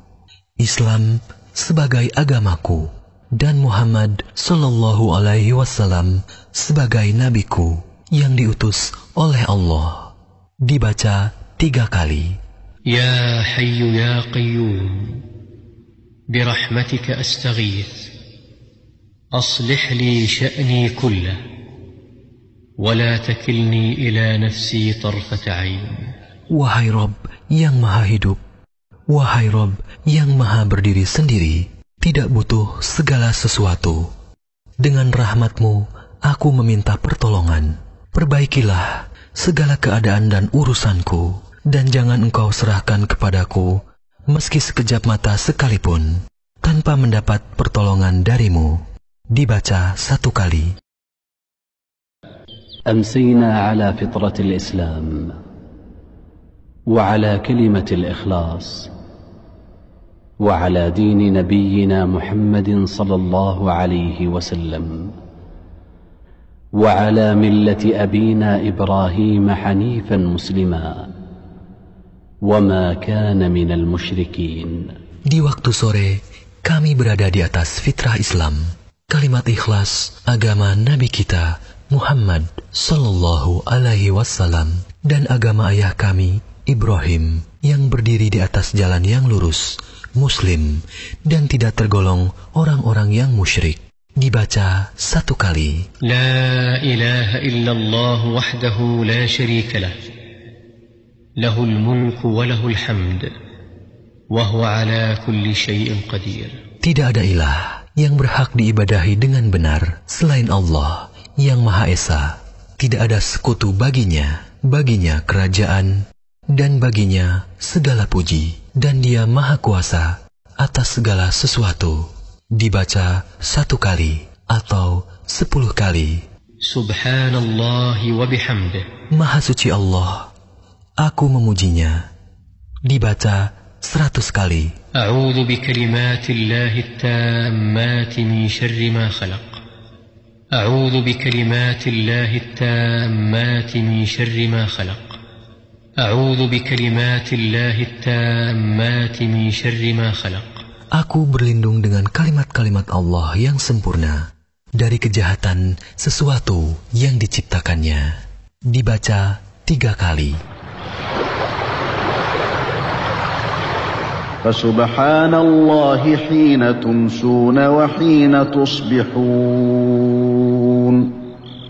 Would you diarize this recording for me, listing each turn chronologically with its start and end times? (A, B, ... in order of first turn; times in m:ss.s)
0:00.6-0:10.1 A
0:10.7-0:12.4 A
0:12.9-0:15.2 B
0:16.3-0:18.1 B
0:19.3-0:21.4 B
0:22.8-0:26.1 B
0:26.5-0:28.4 A
0:29.1-0:34.1 A
0:34.8-0:43.8 A
0:44.3-0:48.8 A
0:49.3-0:50.7 A
0:52.9-0:55.3 C
0:56.9-0:58.9 C
1:00.4-1:05.1 C
1:06.7-1:11.1 C
1:12.4-1:14.9 C
1:15.3-1:35.9 A
1:36.1-1:40.0 B
1:41.4-1:43.3 B
1:44.3-1:46.6 B
1:46.8-2:06.2 A
2:06.6-2:08.9 B
2:09.1-2:10.3 A
2:11.0-2:12.0 A
2:12.9-2:14.7 A
2:15.0-2:19.6 B
2:20.5-2:25.2 B
2:26.0-2:30.6 B
2:31.0-2:34.2 A
2:34.8-2:38.1 A
2:38.7-2:40.4 A
2:44.4-2:51.1 D